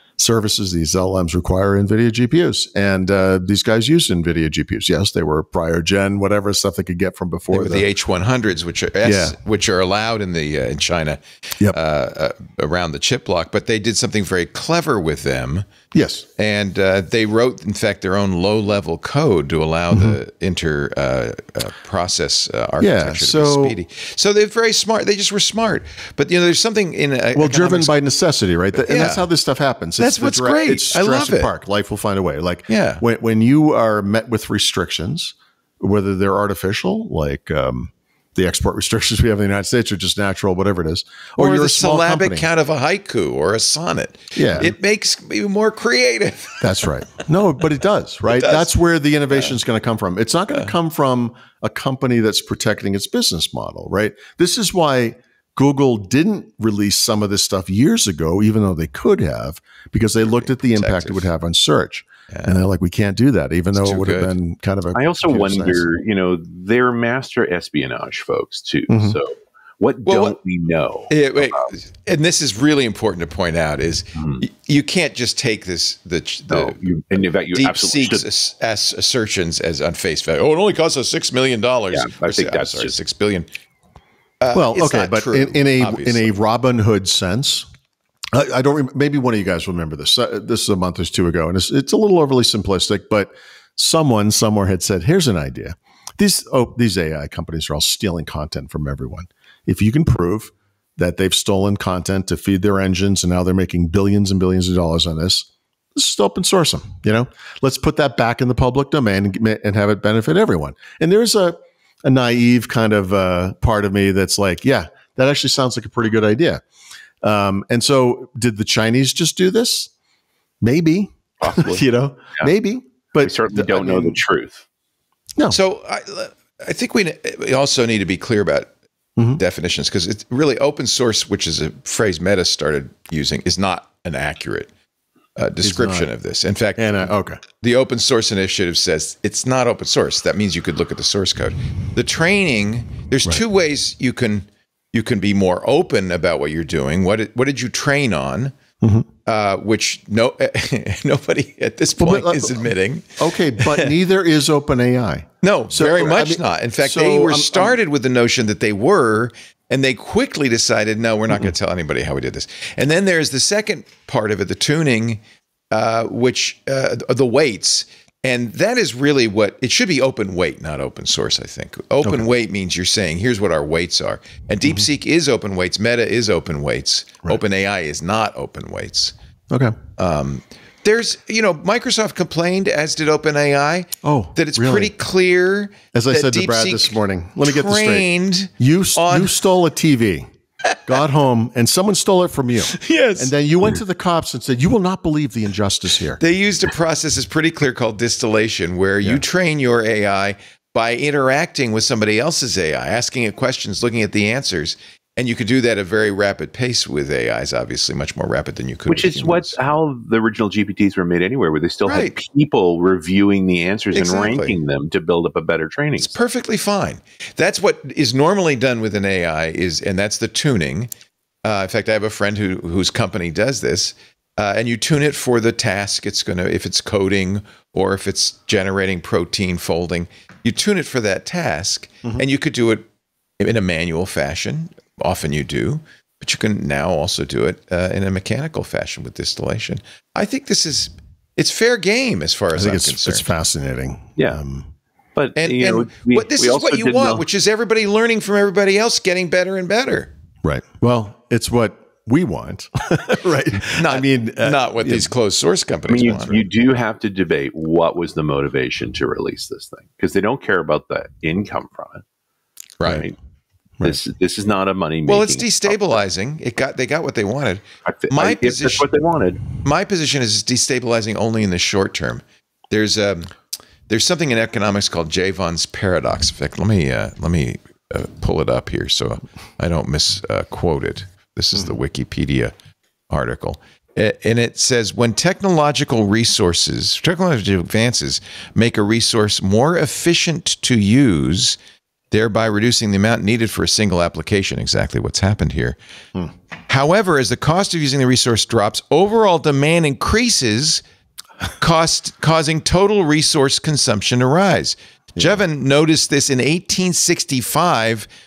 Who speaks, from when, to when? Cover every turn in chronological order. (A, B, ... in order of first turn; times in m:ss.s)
0:00.2-0:07.9 A
0:07.5-0:15.7 B
0:09.0-0:09.4 A
0:15.9-0:16.3 A
0:16.4-0:28.0 B
0:19.9-0:20.2 A
0:22.8-0:23.8 A
0:27.3-0:42.5 A
0:28.8-0:29.3 B
0:30.0-0:31.5 B
0:32.7-0:33.0 B
0:41.4-0:46.9 B
0:44.4-0:44.7 A
0:46.6-1:05.9 A
0:48.3-0:48.7 B
0:49.3-0:49.6 B
1:00.2-1:01.3 B
1:02.3-1:02.6 B
1:03.7-1:04.3 B
1:05.0-1:11.7 C
1:08.9-1:09.2 A
1:10.1-1:10.4 B
1:11.1-1:23.5 B
1:14.2-1:14.4 C
1:16.5-1:18.3 C
1:21.9-1:23.0 C
1:24.4-1:26.4 B
1:24.5-1:27.7 A
1:28.3-1:56.6 A
1:57.2-1:59.9 A
2:00.6-2:04.2 A
2:01.4-2:01.9 C
2:03.2-2:04.6 C
2:05.5-2:08.7 B
2:09.4-2:14.7 B
2:15.4-2:28.6 B
2:15.6-2:16.1 A
2:16.8-2:17.4 A
2:28.8-2:29.1 A
2:29.2-2:33.9 B
2:32.0-2:37.8 A
2:35.4-2:59.2 B
2:52.0-2:52.3 A
3:00.0-3:09.4 B
3:04.0-3:04.9 A
3:05.9-3:08.1 A
3:08.6-3:10.3 A
3:10.8-3:16.2 A
3:12.7-3:13.3 B
3:16.2-3:29.6 B
3:28.9-3:36.2 C
3:31.9-3:32.2 B
3:33.9-3:34.6 B
3:36.0-3:40.9 B
3:41.4-3:52.9 B
3:53.4-4:03.3 B
4:02.5-4:04.7 A
4:05.2-4:07.2 C
4:05.4-4:10.1 B
4:10.4-4:15.1 A
4:13.7-4:16.4 B
4:15.9-4:22.0 C
4:16.1-4:16.4 A
4:22.8-4:23.1 B
4:22.9-4:23.2 C
4:23.8-4:26.0 C
4:25.1-4:28.9 B
4:27.8-4:29.5 C
4:29.6-4:33.3 B
4:33.9-4:42.5 B
4:43.1-4:51.6 B
4:52.1-4:55.8 B
4:56.7-5:00.8 B
5:01.6-5:08.1 B